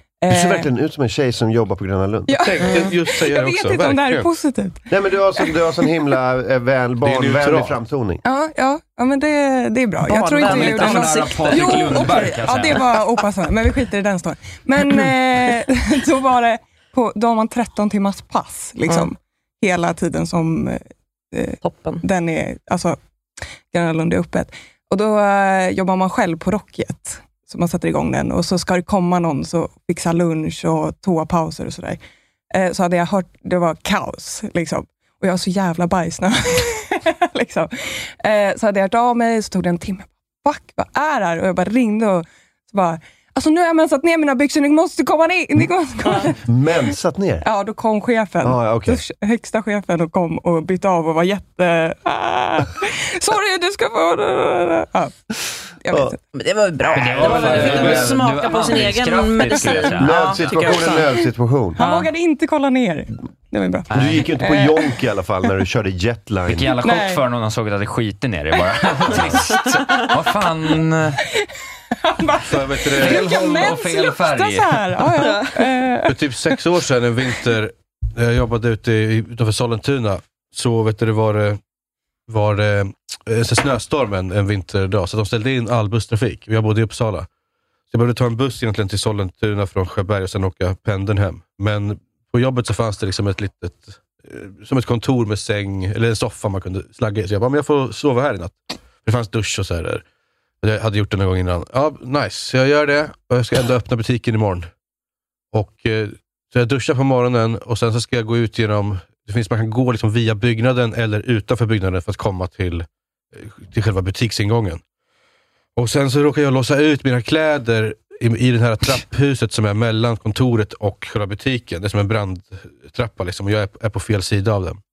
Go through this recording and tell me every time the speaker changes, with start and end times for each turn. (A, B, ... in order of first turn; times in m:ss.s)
0:00.2-0:00.7 A
0:00.3-0:02.7 B
0:02.3-0:05.6 A
0:02.4-0:04.3 C
0:04.9-0:08.2 B
0:07.0-0:07.8 C
0:08.2-0:20.8 A
0:10.1-0:12.1 D
0:10.4-0:12.9 E
0:21.3-0:23.0 A
0:21.6-0:22.0 D
0:23.7-0:32.0 A
0:32.5-0:46.4 A
0:46.3-0:47.4 B
0:47.4-0:56.2 A
0:48.4-0:49.0 B
0:56.3-1:01.1 D
0:56.9-1:00.4 E
0:57.2-0:58.1 C
1:00.0-1:01.8 B
1:01.8-1:05.0 A
1:01.8-1:02.1 D
1:03.9-1:04.3 E
1:03.9-1:06.7 B
1:06.5-1:11.2 E
1:06.8-1:07.2 A
1:12.0-1:16.5 A
1:12.4-1:13.3 C
1:13.0-1:14.9 E
1:15.2-1:15.6 D
1:16.1-1:21.6 C
1:22.3-1:27.3 C
1:27.9-1:40.0 C
1:40.6-1:44.7 C
1:45.5-1:54.8 C
1:55.8-2:04.8 C